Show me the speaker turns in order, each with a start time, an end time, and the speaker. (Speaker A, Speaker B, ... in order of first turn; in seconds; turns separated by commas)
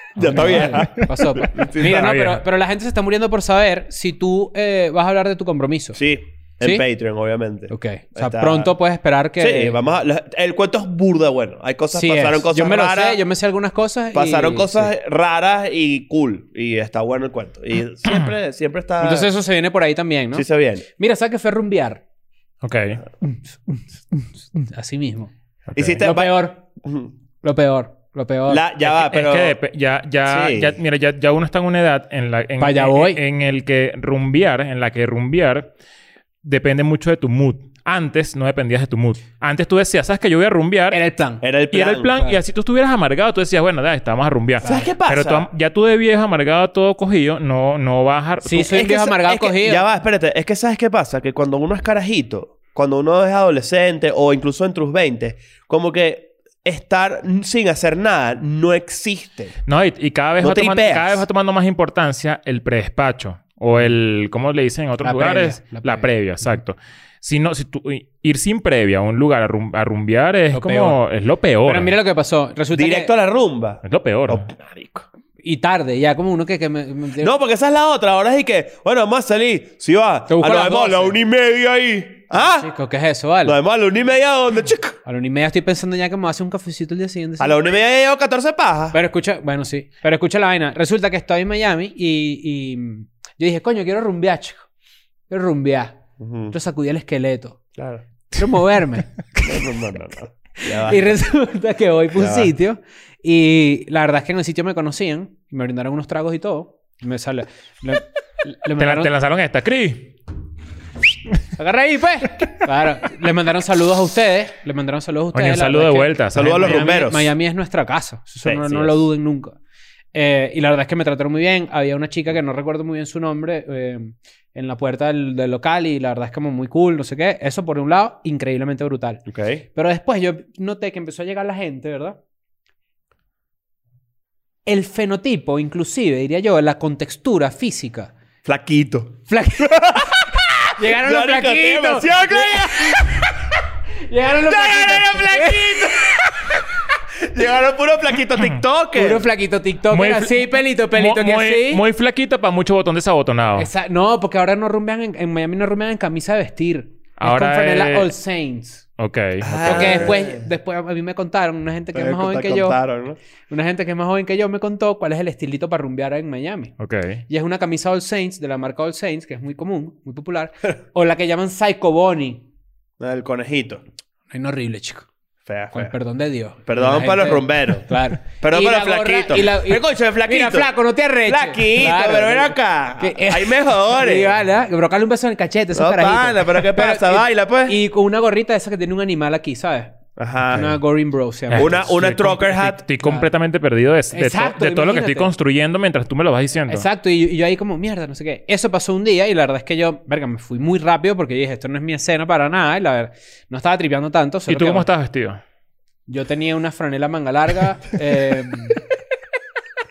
Speaker A: 0.1-2.1, Speaker B: 0.2-2.4, Speaker C: 0.2-6.0, Speaker A: 6.0-8.8, Speaker C: 7.7-9.8, Speaker A: 9.4-13.2, Speaker C: 11.9-14.9, Speaker A: 14.1-19.3, Speaker C: 19.0-22.0, Speaker A: 20.3-20.8, Speaker B: 22.6-23.0, Speaker C: 23.2-25.3, Speaker B: 25.7-26.0, Speaker A: 25.7-27.1, Speaker C: 26.0-26.6, Speaker C: 27.4-28.6, Speaker A: 28.5-29.6, Speaker B: 28.8-35.7, Speaker A: 30.2-30.8, Speaker C: 32.6-33.2, Speaker B: 36.4-41.0, Speaker C: 40.9-41.4, Speaker A: 41.4-42.1, Speaker B: 41.7-48.7, Speaker C: 44.6-44.9, Speaker A: 44.6-45.5, Speaker C: 48.4-49.8, Speaker A: 48.6-59.5, Speaker B: 59.7-72.0, Speaker A: 60.4-61.2, Speaker C: 65.0-66.6, Speaker C: 70.5-71.0, Speaker C: 71.6-73.1, Speaker A: 72.7-75.0, Speaker B: 73.8-74.5, Speaker C: 75.4-77.3, Speaker A: 77.2-82.7, Speaker C: 80.3-81.2, Speaker C: 82.6-83.6, Speaker A: 83.4-85.0, Speaker C: 85.0-87.6, Speaker A: 87.4-89.0, Speaker C: 88.9-94.7, Speaker C: 95.3-97.6, Speaker A: 96.2-96.5, Speaker A: 97.8-98.0, Speaker C: 98.3-99.7, Speaker A: 99.4-101.2, Speaker C: 100.6-109.1, Speaker A: 102.1-102.5, Speaker B: 108.8-110.1, Speaker C: 111.5-119.6, Speaker B: 115.3-116.9, Speaker A: 116.3-117.3, Speaker A: 118.4-118.9, Speaker C: 120.1-132.2, Speaker A: 129.3-129.6, Speaker C: 134.7-138.1, Speaker A: 138.4-143.3, Speaker C: 139.3-140.1, Speaker C: 140.8-143.2, Speaker C: 144.0-146.0, Speaker A: 144.4-146.6, Speaker A: 147.2-149.2, Speaker C: 148.9-151.8, Speaker B: 149.9-153.7, Speaker C: 153.6-158.8, Speaker B: 157.2-158.1, Speaker B: 159.0-160.1, Speaker A: 159.4-160.4, Speaker C: 159.6-162.8, Speaker A: 161.9-163.2, Speaker C: 163.5-166.7, Speaker B: 166.8-167.2, Speaker C: 167.3-172.4, Speaker A: 173.0-173.8, Speaker C: 174.3-175.1, Speaker A: 175.4-175.9, Speaker C: 175.7-190.0, Speaker A: 176.7-180.7, Speaker A: 181.2-184.3, Speaker A: 185.7-187.8, Speaker A: 190.2-190.8, Speaker C: 190.5-191.8, Speaker B: 191.5-196.8, Speaker A: 191.5-192.8, Speaker C: 194.1-195.3, Speaker C: 196.7-204.9, Speaker B: 204.5-205.4, Speaker C: 206.1-208.8